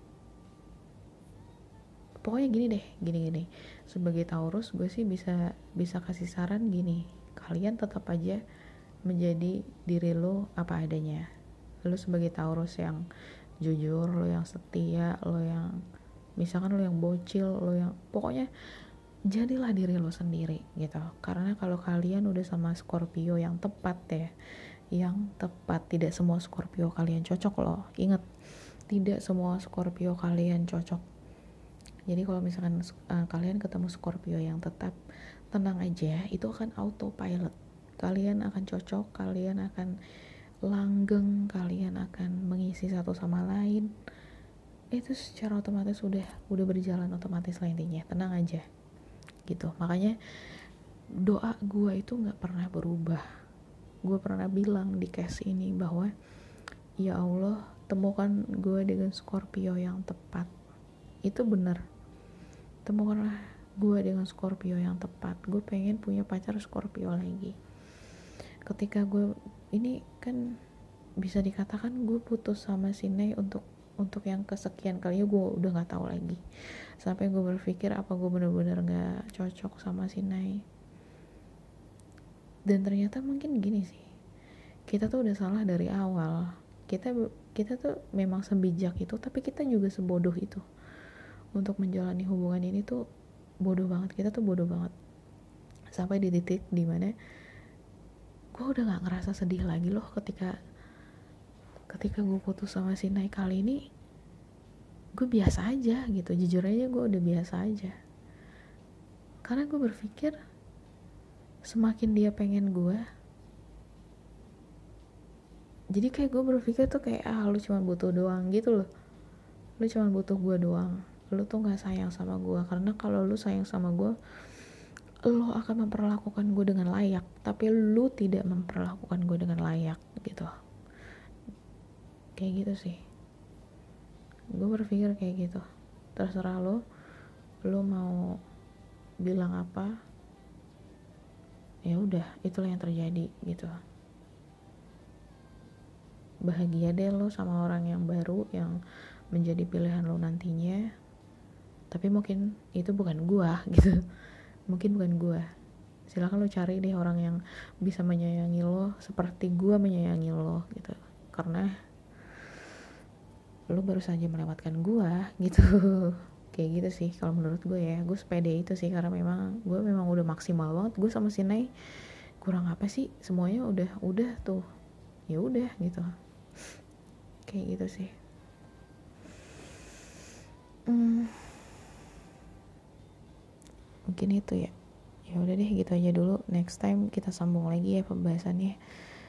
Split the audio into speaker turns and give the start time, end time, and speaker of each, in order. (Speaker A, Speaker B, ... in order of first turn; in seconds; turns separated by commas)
Speaker A: 2.2-8.4, Speaker A: 9.1-11.2, Speaker A: 11.8-13.0, Speaker A: 13.6-15.7, Speaker A: 16.4-18.5, Speaker A: 19.3-24.3, Speaker A: 24.9-28.2, Speaker A: 28.9-31.0, Speaker A: 32.1-35.0, Speaker A: 35.5-39.9, Speaker A: 40.7-43.9, Speaker A: 44.9-48.6, Speaker A: 49.5-50.1, Speaker A: 51.2-53.2, Speaker A: 54.0-56.1, Speaker A: 57.0-60.5, Speaker A: 61.3-61.8, Speaker A: 62.9-67.5, Speaker A: 68.7-70.4, Speaker A: 71.2-76.4, Speaker A: 77.0-80.6, Speaker A: 82.7-84.1, Speaker A: 84.9-90.6, Speaker A: 91.5-93.0, Speaker A: 93.7-94.9, Speaker A: 95.9-97.1, Speaker A: 98.5-100.5, Speaker A: 101.9-103.8, Speaker A: 105.2-107.9, Speaker A: 109.5-110.3, Speaker A: 111.7-113.0, Speaker A: 115.9-118.9, Speaker A: 119.8-124.1, Speaker A: 125.3-130.5, Speaker A: 132.4-133.0, Speaker A: 134.5-135.6, Speaker A: 136.2-136.8, Speaker A: 137.7-138.2, Speaker A: 139.2-139.9, Speaker A: 141.9-143.7, Speaker A: 146.5-148.7, Speaker A: 149.3-150.8, Speaker A: 151.9-154.0, Speaker A: 154.7-155.4, Speaker A: 156.1-161.7, Speaker A: 163.7-174.6, Speaker A: 175.3-176.1, Speaker A: 177.5-178.1, Speaker A: 180.9-181.7, Speaker A: 184.1-184.7, Speaker A: 185.3-188.8